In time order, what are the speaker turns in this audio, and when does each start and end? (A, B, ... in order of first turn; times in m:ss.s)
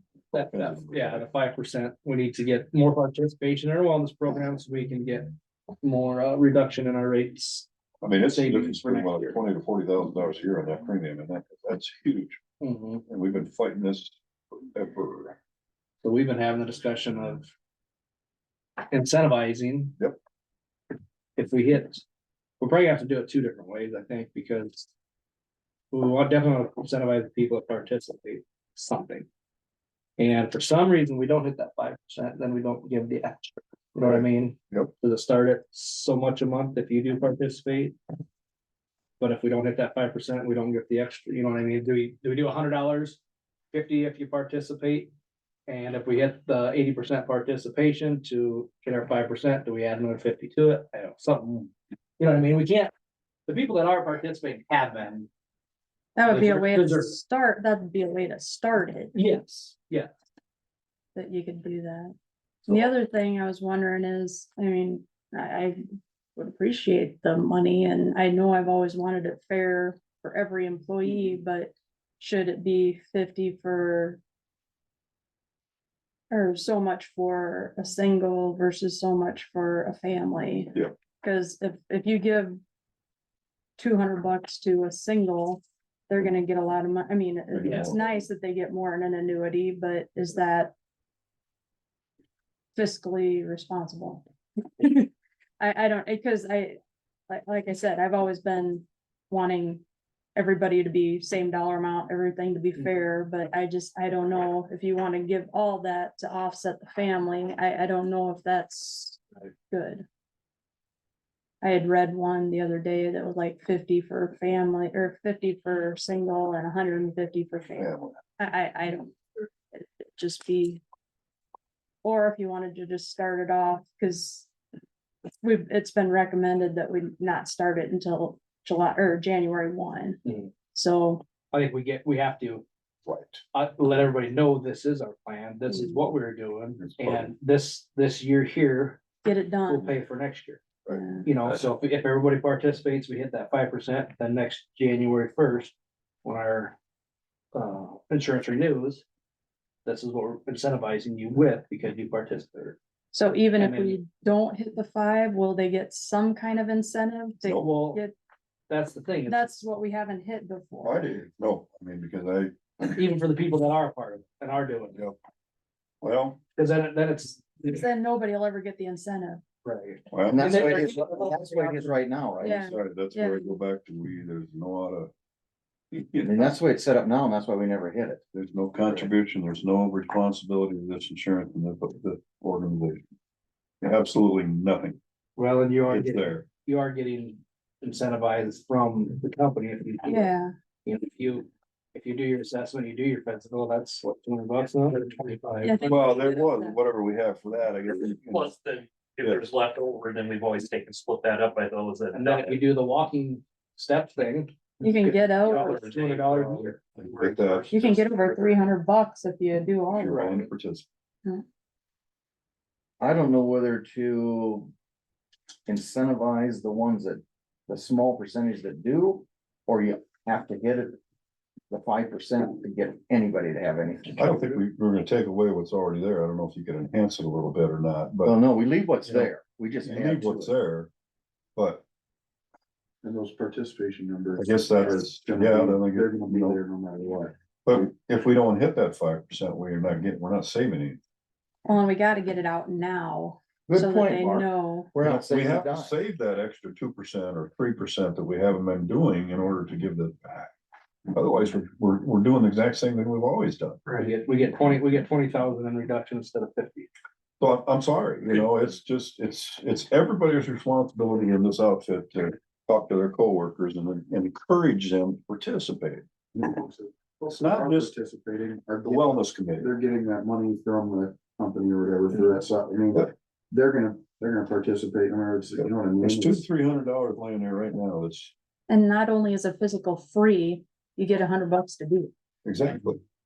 0:00.3-0:05.3 A
0:00.4-0:01.2 B
0:05.8-0:07.7 A
0:08.0-0:12.4 B
0:08.3-0:09.3 C
0:12.6-0:13.0 A
0:13.1-0:14.2 B
0:14.7-0:15.4 B
0:16.0-0:17.5 A
0:18.9-0:19.9 A
0:21.4-0:22.0 A
0:22.6-0:24.9 A
0:25.9-0:29.3 A
0:30.2-0:38.0 A
0:34.0-0:34.9 B
0:39.2-0:43.2 A
0:43.7-0:45.1 A
0:45.7-0:52.9 A
0:53.5-0:55.3 A
0:56.2-0:59.2 D
0:56.3-0:57.2 A
0:59.1-1:00.1 A
1:01.2-1:02.1 D
1:02.6-1:05.8 D
1:06.4-1:14.2 D
1:16.3-1:22.6 D
1:23.8-1:30.7 D
1:27.5-1:28.0 B
1:32.8-1:34.2 D
1:34.8-1:36.8 D
1:37.3-1:39.8 D
1:40.4-1:50.0 D
1:51.6-2:00.8 D
1:57.8-1:58.1 B
2:02.0-2:04.5 D
2:05.4-2:10.2 D
2:10.2-2:10.5 A
2:10.7-2:11.2 D
2:11.5-2:12.6 A
2:13.0-2:13.4 B
2:13.5-2:19.0 A
2:15.7-2:16.0 D
2:16.8-2:17.3 B
2:19.2-2:19.9 D
2:19.7-2:20.6 A
2:20.9-2:21.3 D
2:21.2-2:26.8 A
2:27.5-2:29.0 A
2:29.8-2:32.8 A
2:33.1-2:38.1 D
2:33.6-2:34.0 A
2:37.5-2:38.0 A
2:38.7-2:39.5 A
2:39.3-2:41.1 D
2:40.8-2:42.5 B
2:42.9-2:45.0 A
2:46.0-2:46.4 B
2:46.6-2:47.8 A
2:47.6-2:49.4 D
2:49.6-2:51.9 A
2:50.1-2:50.6 B
2:50.3-2:52.6 C
2:52.4-2:55.1 B
2:52.4-2:53.5 D
2:55.9-2:56.4 B
2:56.2-2:58.2 C
2:58.3-3:03.0 B
2:58.8-2:59.1 C
3:03.8-3:05.0 B
3:05.4-3:10.3 A
3:05.9-3:06.4 B
3:10.0-3:10.5 D
3:10.8-3:15.9 A
3:15.6-3:16.8 D
3:15.8-3:18.5 B
3:18.2-3:22.6 E
3:22.1-3:26.8 A
3:24.8-3:25.8 D
3:25.4-3:28.4 E
3:27.0-3:28.5 B
3:27.7-3:30.3 D
3:29.9-3:30.8 B
3:30.0-3:30.5 A
3:33.0-3:34.7 C
3:35.6-3:41.0 C
3:41.7-3:44.5 C
3:44.2-3:48.4 B
3:48.2-3:50.5 C
3:49.8-3:50.9 B
3:51.6-3:51.8 B
3:53.0-3:57.3 F
3:54.4-3:56.6 B
3:57.6-4:01.0 B
4:01.6-4:04.9 D
4:03.7-4:05.9 C
4:05.0-4:10.5 B
4:11.1-4:13.8 B
4:13.9-4:16.9 A
4:17.4-4:26.0 B
4:26.3-4:36.4 F
4:27.3-4:27.9 B
4:28.8-4:29.7 B
4:35.6-4:38.3 B
4:38.7-4:42.1 D
4:42.4-4:43.0 B